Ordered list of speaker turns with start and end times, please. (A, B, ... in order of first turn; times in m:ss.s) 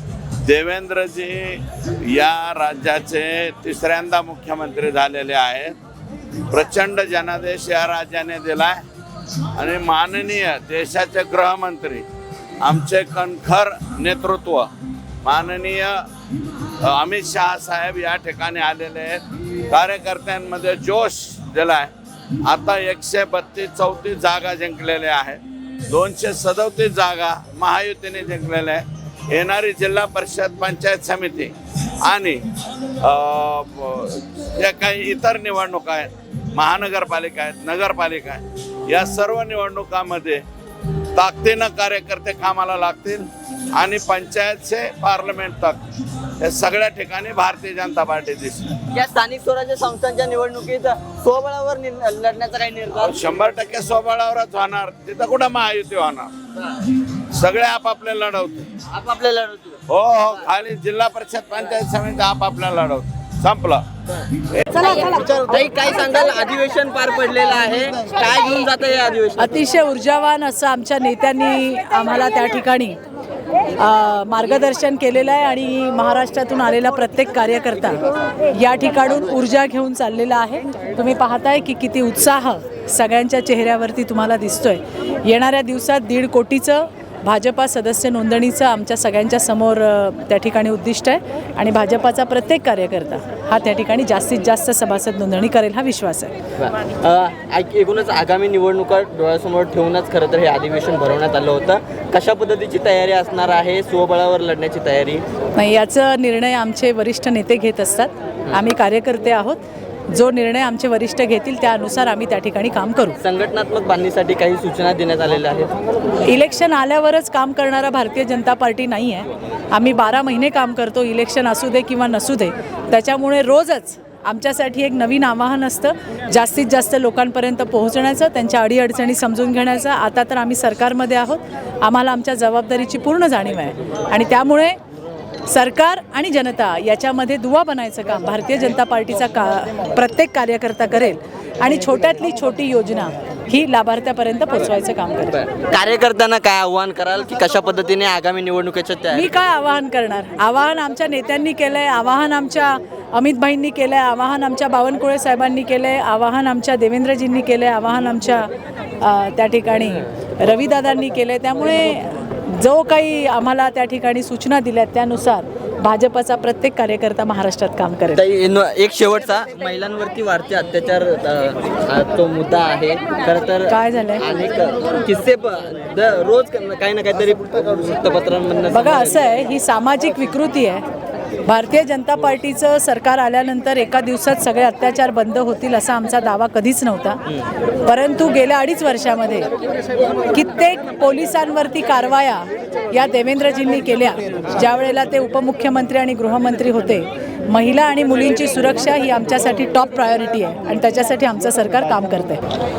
0:00.4-0:05.7 A
0:06.5-0:08.8 A
0:09.6-0:12.0 A
0:12.6-0:14.7 A
0:15.2-0:16.0 A
0:16.8-0:21.9 A
0:22.4-0:32.4 A
0:33.0-0:40.4 A
0:41.2-0:45.8 A
0:46.4-0:48.8 A
0:48.9-0:53.2 B
0:53.0-0:56.3 A
0:57.3-0:58.7 A
0:58.9-0:59.8 B
0:59.9-1:03.8 A
1:04.7-1:09.6 B
1:09.4-1:13.0 C
1:13.8-1:36.3 C
1:36.6-1:45.2 B
1:45.6-1:53.2 C
1:53.2-1:55.7 B
1:56.2-2:14.8 C
2:15.5-2:25.4 C
2:25.3-2:29.3 B
2:29.1-2:38.5 C
2:39.0-2:48.2 C
2:48.1-2:59.2 B
2:53.6-2:54.2 C
2:58.7-3:00.8 C
3:01.4-3:07.2 C
3:07.8-3:09.5 C
3:10.3-3:22.4 C